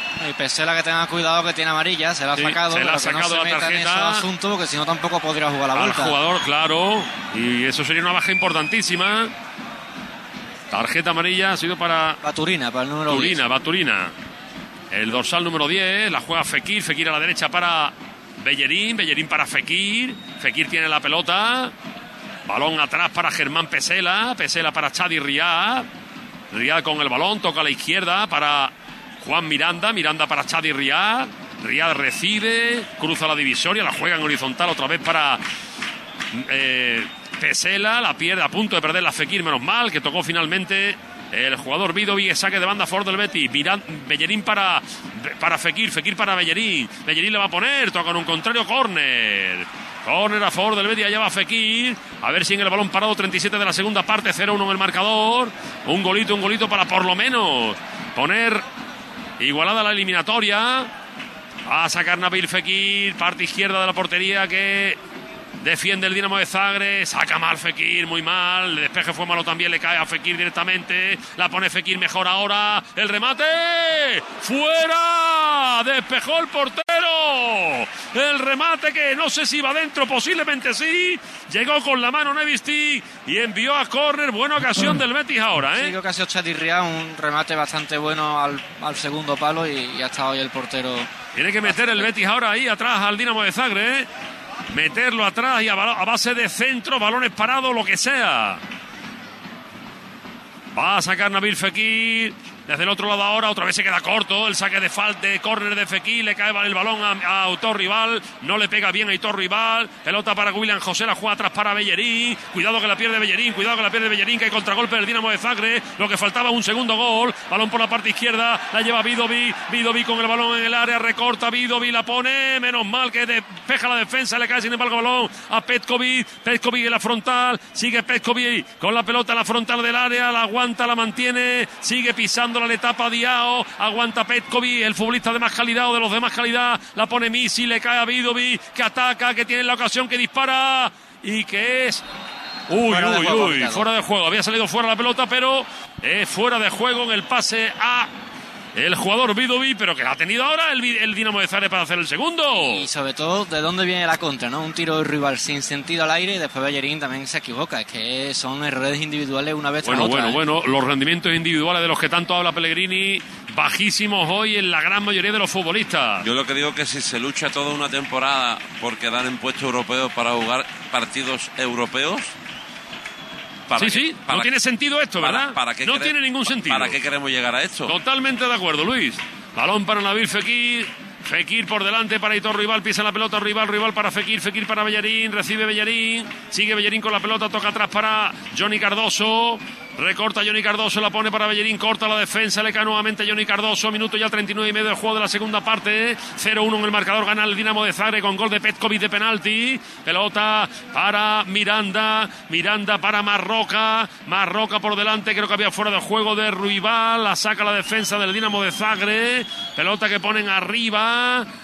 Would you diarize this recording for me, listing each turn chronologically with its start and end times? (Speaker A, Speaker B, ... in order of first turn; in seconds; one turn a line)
Speaker A: 0.2-6.2
Speaker B: 2.4-4.3
Speaker B: 5.7-9.3
Speaker B: 10.7-12.2
Speaker A: 12.2-13.4
Speaker B: 13.1-14.1
Speaker B: 14.9-21.7
Speaker B: 22.5-25.9
Speaker B: 26.5-35.4
Speaker B: 36.3-58.6
Speaker B: 59.4-60.9
Speaker B: 61.6-65.0
Speaker B: 65.6-85.9
Speaker A: 85.6-91.1
Speaker B: 91.3-94.1
Speaker A: 91.6-92.1
Speaker B: 94.7-98.6
Speaker B: 100.7-142.0
Speaker B: 142.7-148.1
Speaker A: 142.8-143.8
Speaker B: 148.7-152.9
Speaker A: 152.5-160.4
Speaker B: 159.8-166.2
Speaker C: 166.2-172.3
Speaker C: 173.7-174.5
Speaker B: 173.8-177.0
Speaker C: 175.2-177.9
Speaker B: 177.9-211.5